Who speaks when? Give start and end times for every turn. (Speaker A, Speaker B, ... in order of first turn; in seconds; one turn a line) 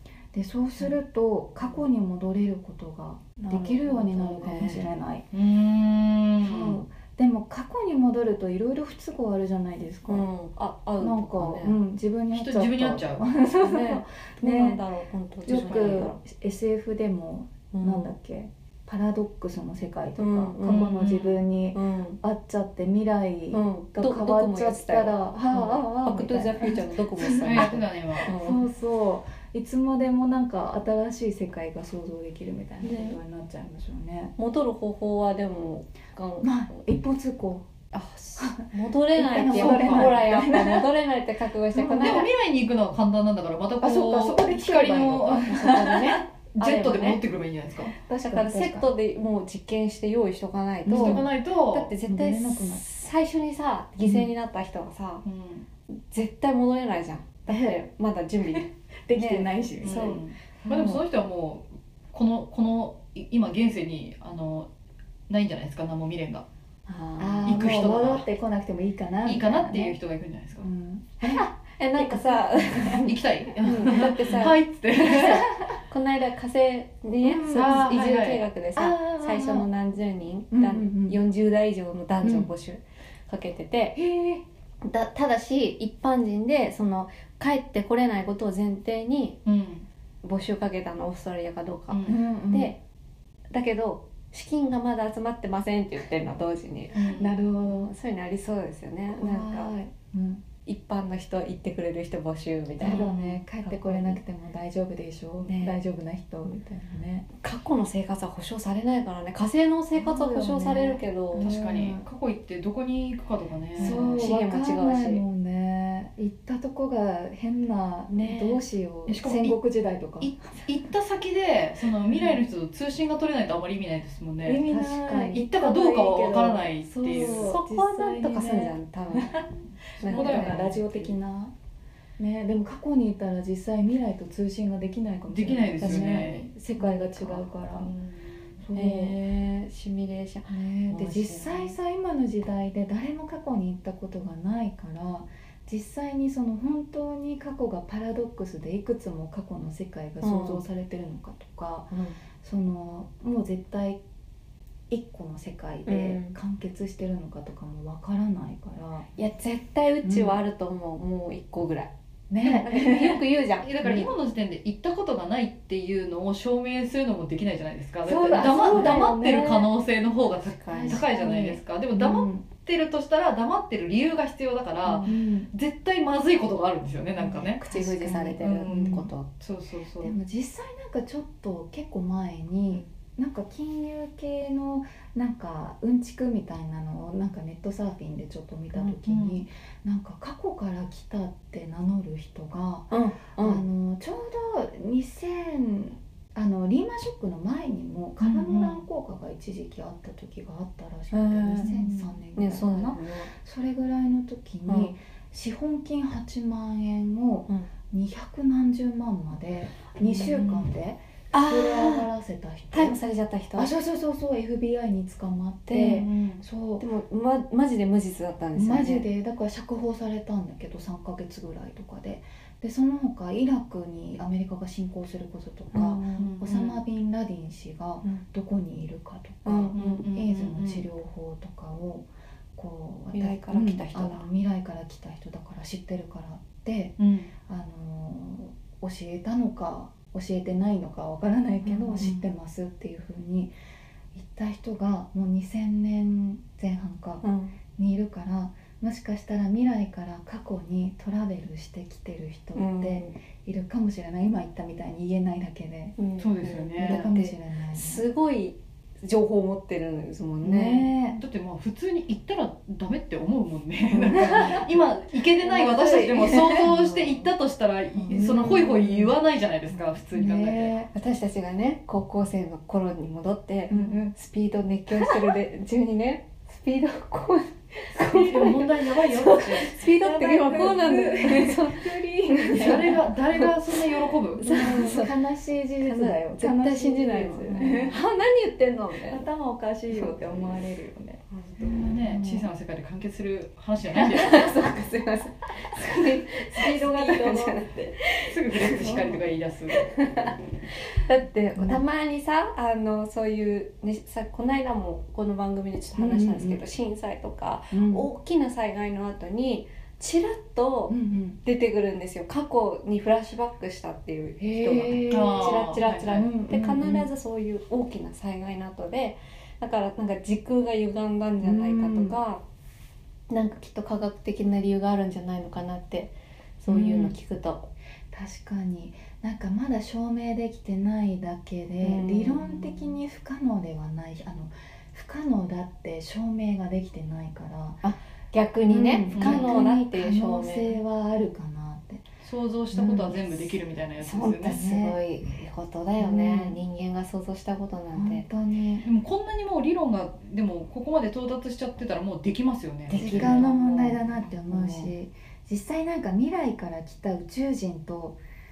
Speaker A: 0.3-5.3
Speaker B: 3.5-4.8
Speaker C: 5.3-6.8
Speaker A: 6.4-10.3
Speaker B: 10.1-11.8
Speaker A: 11.0-14.8
Speaker C: 12.3-13.2
Speaker B: 13.6-16.2
Speaker A: 15.5-34.3
Speaker C: 15.6-16.1
Speaker B: 17.7-18.1
Speaker B: 20.2-20.9
Speaker C: 20.7-21.4
Speaker B: 21.7-22.2
Speaker B: 23.5-28.6
Speaker C: 27.4-28.3
Speaker B: 32.8-33.2
Speaker B: 34.4-36.8
Speaker A: 36.4-37.7
Speaker B: 37.9-42.3
Speaker A: 38.4-40.9
Speaker C: 39.4-40.2
Speaker A: 41.7-42.3
Speaker C: 41.8-47.9
Speaker A: 43.8-46.2
Speaker B: 45.5-47.2
Speaker A: 47.9-48.9
Speaker B: 48.2-55.2
Speaker A: 50.9-51.3
Speaker C: 50.9-51.9
Speaker A: 52.0-52.8
Speaker A: 54.0-54.3
Speaker C: 55.2-55.7
Speaker B: 55.9-60.2
Speaker A: 57.5-57.8
Speaker A: 58.5-61.0
Speaker C: 59.8-64.7
Speaker C: 65.3-66.5
Speaker B: 66.9-67.6
Speaker A: 67.2-70.0
Speaker C: 67.5-68.3
Speaker C: 69.2-70.7
Speaker A: 70.6-73.1
Speaker B: 71.2-84.0
Speaker C: 72.9-75.5
Speaker A: 77.2-77.9
Speaker C: 77.5-78.4
Speaker A: 78.8-79.7
Speaker A: 80.5-81.2
Speaker A: 82.2-82.5
Speaker A: 84.0-84.4
Speaker B: 84.8-89.4
Speaker C: 89.5-89.9
Speaker B: 90.2-92.8
Speaker C: 91.9-92.2
Speaker A: 92.1-92.8
Speaker B: 93.5-99.8
Speaker C: 96.9-97.4
Speaker A: 97.2-97.9
Speaker A: 99.1-100.4
Speaker B: 100.7-104.2
Speaker A: 102.8-107.3
Speaker C: 102.8-103.4
Speaker B: 105.4-105.8
Speaker B: 107.4-111.5
Speaker A: 110.0-112.0
Speaker C: 111.4-114.3
Speaker A: 113.8-120.3
Speaker B: 113.8-115.2
Speaker B: 118.1-118.6
Speaker C: 119.1-119.6
Speaker C: 120.2-124.6
Speaker A: 124.4-129.5
Speaker B: 124.7-125.4
Speaker C: 125.3-127.5
Speaker B: 127.1-129.4
Speaker C: 130.0-130.8
Speaker B: 130.0-131.1
Speaker A: 130.0-131.5
Speaker A: 132.2-137.9
Speaker C: 135.3-136.5
Speaker B: 135.8-136.4
Speaker C: 137.2-138.6
Speaker A: 138.6-139.2
Speaker B: 138.7-141.8
Speaker A: 140.5-154.0
Speaker B: 150.2-150.6
Speaker B: 151.9-152.2
Speaker A: 154.9-159.1
Speaker B: 155.9-156.3
Speaker B: 159.2-164.1
Speaker A: 160.0-160.4
Speaker A: 162.3-163.2
Speaker C: 163.6-177.6
Speaker A: 168.1-169.7
Speaker B: 168.3-169.1
Speaker B: 170.4-171.1
Speaker A: 170.7-172.4
Speaker B: 174.8-175.1
Speaker A: 175.0-175.5
Speaker A: 177.2-179.1
Speaker B: 177.6-179.3
Speaker C: 178.4-180.2
Speaker A: 180.0-213.0
Speaker C: 189.0-189.4
Speaker B: 192.9-193.6
Speaker C: 198.2-198.8
Speaker B: 201.1-201.7
Speaker C: 201.6-202.2
Speaker B: 202.4-203.3
Speaker C: 210.2-210.7
Speaker B: 211.3-212.1
Speaker B: 212.7-213.7
Speaker A: 213.6-216.8
Speaker B: 215.7-216.0
Speaker C: 215.7-216.4
Speaker B: 216.8-219.1
Speaker A: 218.6-243.5
Speaker B: 225.7-226.3
Speaker C: 226.2-226.8
Speaker B: 229.4-230.0
Speaker C: 229.7-230.9
Speaker B: 233.1-234.3
Speaker C: 237.0-237.3
Speaker C: 241.9-242.2
Speaker A: 244.1-247.2
Speaker B: 247.2-247.6
Speaker A: 247.8-256.0
Speaker B: 252.6-253.2
Speaker B: 256.0-260.9
Speaker C: 256.2-257.1
Speaker A: 256.8-258.1
Speaker A: 260.4-261.2
Speaker C: 261.2-270.8
Speaker A: 263.9-264.7
Speaker A: 265.4-267.2
Speaker B: 265.8-266.7
Speaker A: 268.0-269.1
Speaker B: 268.1-268.8
Speaker A: 270.1-270.9
Speaker B: 270.9-283.8
Speaker A: 273.7-274.1
Speaker C: 273.7-274.0
Speaker A: 274.9-275.3
Speaker C: 278.0-279.8
Speaker A: 279.8-283.1
Speaker C: 282.5-284.5
Speaker B: 284.4-285.1
Speaker A: 284.4-288.0
Speaker B: 285.8-289.2
Speaker C: 287.6-287.9
Speaker A: 289.1-292.5
Speaker C: 291.6-294.6
Speaker B: 294.0-298.9
Speaker A: 296.0-298.0
Speaker C: 298.3-299.9
Speaker A: 298.8-299.2
Speaker B: 299.7-322.4
Speaker A: 301.6-301.8
Speaker A: 306.0-306.6
Speaker A: 307.7-308.1
Speaker A: 310.9-311.4
Speaker A: 314.4-317.1
Speaker C: 315.1-316.3
Speaker A: 321.4-322.2
Speaker B: 323.3-327.7
Speaker A: 326.7-327.1
Speaker A: 328.1-337.8
Speaker B: 331.8-332.7
Speaker B: 337.8-340.7
Speaker A: 338.7-342.1
Speaker C: 339.1-339.7
Speaker C: 342.2-344.6
Speaker A: 342.7-343.5
Speaker B: 344.0-348.3
Speaker A: 344.5-345.0
Speaker A: 346.0-346.6
Speaker A: 347.9-348.9
Speaker C: 348.8-353.9
Speaker B: 352.9-354.9
Speaker A: 352.9-358.2